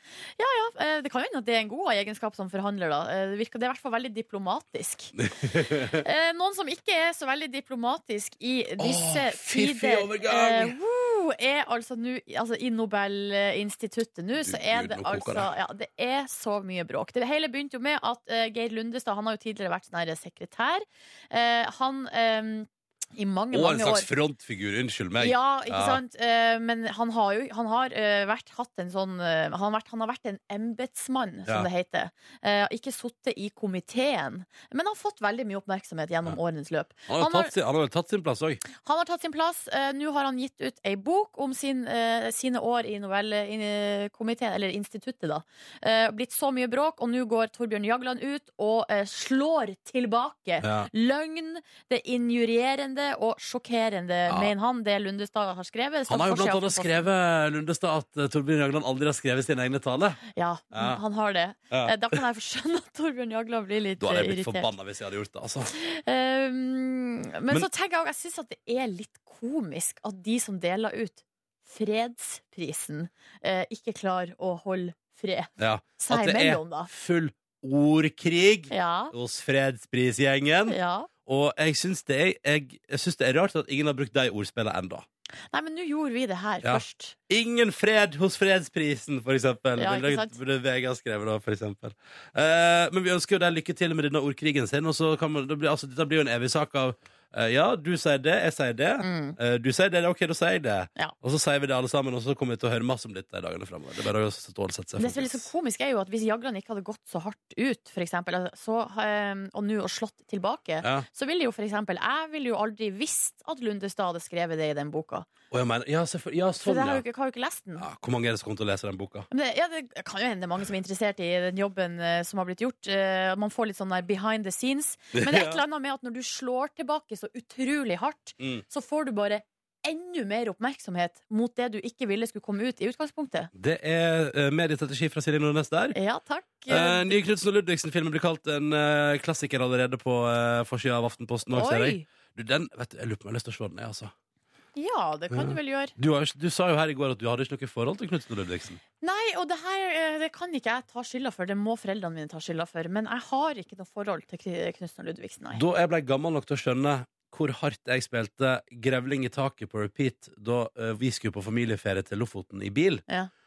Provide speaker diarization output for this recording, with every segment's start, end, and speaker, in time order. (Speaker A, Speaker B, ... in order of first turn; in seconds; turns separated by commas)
Speaker A: 0.2-5.1, Speaker B: 5.2-6.0, Speaker A: 6.0-24.1, Speaker B: 8.8-10.8, Speaker B: 14.4-15.5, Speaker B: 23.5-26.0, Speaker A: 25.2-37.5, Speaker B: 37.1-38.6, Speaker A: 38.7-57.1, Speaker B: 50.6-50.9, Speaker B: 56.1-60.2, Speaker A: 60.3-64.7, Speaker B: 60.7-61.0, Speaker B: 61.7-62.2, Speaker B: 64.0-65.7, Speaker A: 65.7-76.9, Speaker B: 75.6-85.0, Speaker A: 78.7-79.1, Speaker A: 80.7-81.1, Speaker A: 85.5-87.2, Speaker B: 86.6-105.5, Speaker A: 89.8-90.4, Speaker A: 99.0-99.4, Speaker A: 105.0-115.3, Speaker B: 110.8-111.0, Speaker B: 115.5-117.0, Speaker A: 116.6-117.8, Speaker B: 117.8-119.3, Speaker A: 119.3-133.5, Speaker B: 125.1-125.6, Speaker B: 133.5-136.0, Speaker A: 135.9-137.2, Speaker B: 136.7-144.1, Speaker A: 141.5-142.1, Speaker A: 144.8-145.9, Speaker B: 145.3-148.8, Speaker A: 149.0-155.6, Speaker B: 155.5-163.0